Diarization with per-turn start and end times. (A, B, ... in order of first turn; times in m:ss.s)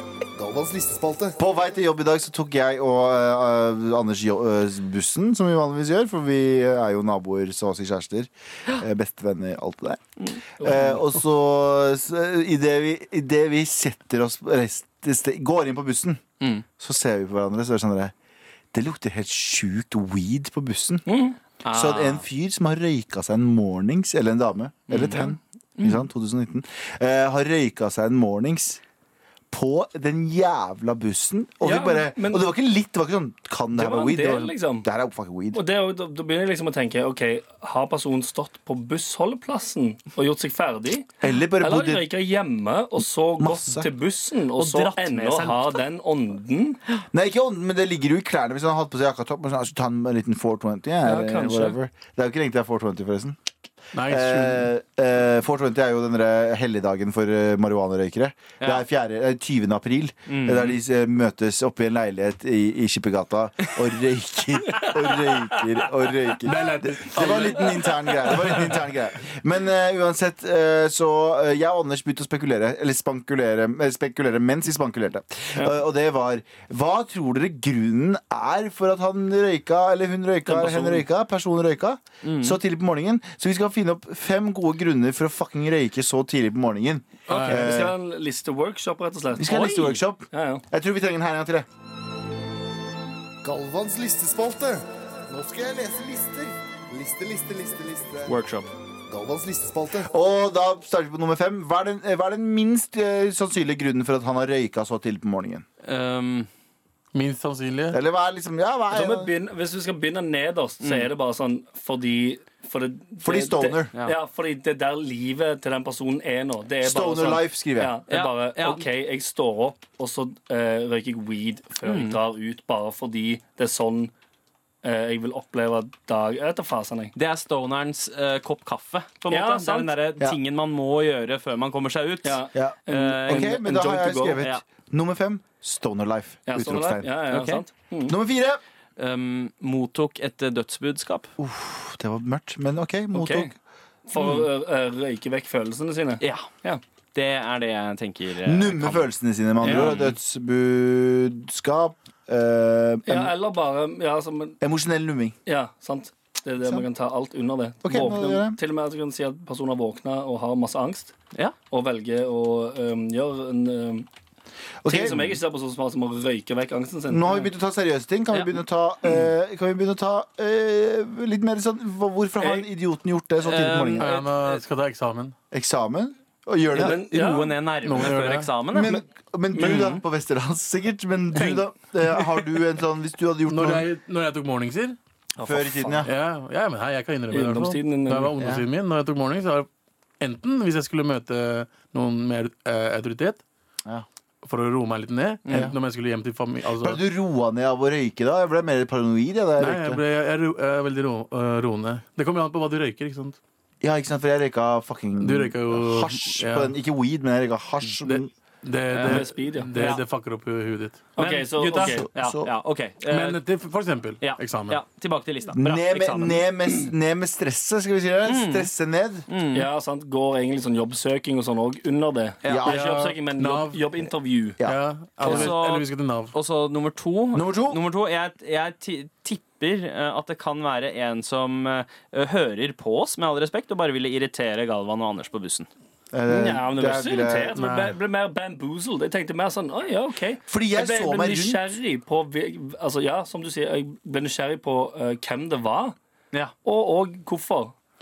0:00.4-0:01.4 A
0:01.4-0:16.2 B
0:10.6-0:11.0 C
0:16.8-0:18.1 B
0:18.7-0:21.0 B
0:21.1-0:21.4 C
0:21.6-0:22.2 D
0:21.7-0:28.8 B
0:24.9-0:26.0 D
0:29.5-0:35.6 B
0:31.6-0:32.5 C
0:33.7-0:34.9 C
0:35.5-0:41.1 C
0:41.2-0:42.1 B
0:41.6-0:46.8 C
0:43.4-0:43.9 B
0:44.6-0:45.8 D
0:47.1-0:53.4 B
0:51.0-0:51.8 C
0:53.9-0:54.7 E
0:54.0-1:27.9 B
0:58.6-0:58.8 D
1:00.3-1:00.8 D
1:06.4-1:08.8 E
1:20.4-1:21.0 C
1:22.2-1:22.6 D
1:27.3-1:27.8 D
1:27.3-1:27.6 E
1:27.3-1:30.6 C
1:29.4-1:31.7 B
1:33.4-1:38.3 A
1:38.3-1:38.7 D
1:39.1-1:40.1 A
1:40.1-1:45.6 B
1:45.8-1:46.5 D
1:47.1-1:48.0 E
1:47.9-1:49.3 B
1:48.9-2:04.1 C
1:50.8-1:51.1 D
1:53.2-1:53.9 B
1:56.8-1:58.0 B
1:58.1-1:58.8 D
2:01.8-2:02.2 D
2:04.8-2:07.1 C
2:07.2-2:13.6 D
2:09.3-2:09.9 C
2:12.2-2:14.4 C
2:12.5-2:17.1 B
2:14.2-2:14.6 D
2:16.5-2:18.2 C
2:17.3-2:17.6 D
2:18.1-2:18.6 B
2:19.0-2:21.3 D
2:21.4-2:23.5 B
2:23.1-2:23.4 D
2:24.1-2:26.8 C
2:24.2-2:24.4 D
2:26.2-2:26.5 D
2:27.1-2:29.1 D
2:28.4-2:33.3 B
2:29.6-2:30.1 D
2:29.6-2:29.9 C
2:33.0-2:34.6 C
2:34.6-2:35.3 B
2:35.4-2:41.1 C
2:37.8-2:38.6 B
2:41.7-2:44.1 C
2:44.8-2:45.4 B
2:44.9-2:47.5 C
2:47.1-2:54.1 B
2:48.3-2:48.6 D
2:53.4-2:54.6 D
2:54.0-2:55.4 E
2:55.5-2:57.0 B
2:56.7-2:57.5 C
2:56.8-2:59.0 D
2:57.8-2:58.5 E
2:58.7-3:03.8 B
2:59.6-2:59.9 C
2:59.6-3:00.0 D
3:03.5-3:05.0 E
3:05.4-3:06.1 C
3:05.4-3:06.1 B
3:06.0-3:09.7 E
3:07.3-3:08.3 C
3:08.4-3:08.6 B
3:10.2-3:13.4 E
3:14.4-3:17.0 E
3:15.4-3:15.7 D
3:15.5-3:15.8 B
3:16.8-3:20.0 B
3:19.6-3:23.4 E
3:23.8-3:28.3 B
3:25.2-3:26.7 E
3:28.0-3:31.0 E
3:28.9-3:30.0 D
3:29.0-3:29.9 C
3:31.1-3:32.1 C
3:31.2-3:33.4 D
3:31.8-3:32.5 B
3:33.1-3:34.8 E
3:34.2-3:36.5 D
3:35.6-3:39.2 B
3:38.2-3:38.7 D
3:39.3-3:39.7 D
3:39.5-3:44.6 C
3:42.4-3:43.0 B
3:42.7-3:43.8 E
3:44.6-3:45.5 B
3:44.6-3:46.3 E
3:45.2-3:55.7 D
3:47.3-3:47.8 B
3:56.1-3:57.6 B
3:56.3-4:06.0 C
3:57.6-3:57.9 E
4:00.5-4:01.6 B
4:06.6-4:07.7 C